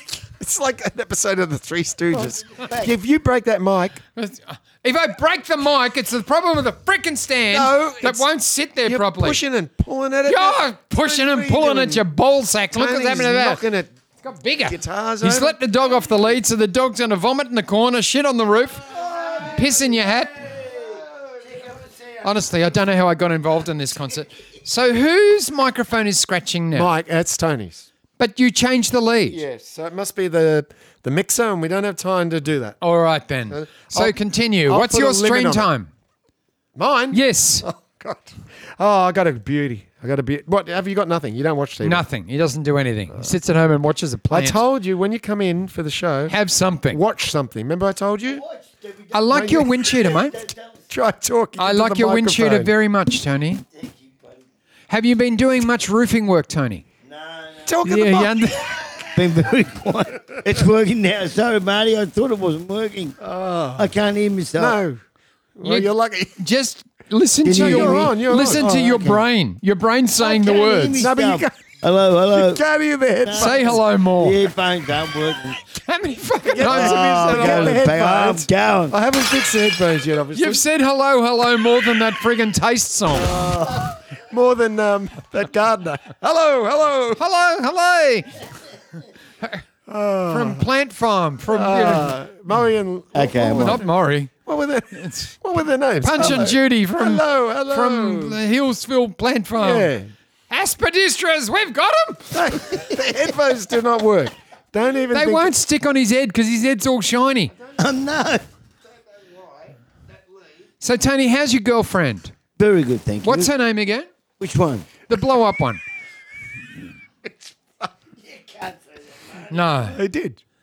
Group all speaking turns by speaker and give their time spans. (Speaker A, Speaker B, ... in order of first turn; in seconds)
Speaker A: 0.4-4.0, 7.5-8.2, 8.8-12.1, 12.7-13.9, 14.7-15.6, 26.7-27.9, 29.3-32.8, 33.5-35.7, 36.8-42.0, 44.3-46.4, 46.9-48.4, 49.3-49.7, 50.9-52.7, 57.6-58.7, 63.2-63.9, 64.5-65.0, 65.5-66.3, 67.5-68.7, 71.0-71.6, 72.3-73.8, 76.5-80.6, 83.7-87.2, 89.9-90.7, 91.5-98.4, 99.5-100.1, 102.3-105.5, 119.9-120.4
Speaker B: 2.1-2.9, 18.9-22.2, 48.3-50.8, 53.7-54.4, 57.0-57.8, 59.0-63.2, 63.8-64.8, 67.4-69.2, 70.2-72.6, 73.2-75.6, 76.6-78.9, 83.2-83.9, 93.1-93.8, 107.7-108.4, 112.6-113.5, 114.4-114.9, 118.3-119.5
Speaker C: 4.1-9.4, 10.2-13.6, 14.2-18.9, 19.4-20.5, 22.2-26.9, 28.2-29.4, 32.8-35.9, 37.1-37.6, 41.8-44.6, 46.3-47.0, 49.1-50.4, 51.6-53.6, 54.9-56.8, 57.8-58.8, 65.6-71.1, 73.3-74.4, 75.8-77.8, 80.3-83.4, 87.2-88.4, 90.3-92.2, 93.6-94.3, 94.9-95.3, 96.0-99.9, 100.5-102.6, 105.1-107.5, 110.8-112.3, 113.2-114.1, 115.1-115.8, 119.5-120.0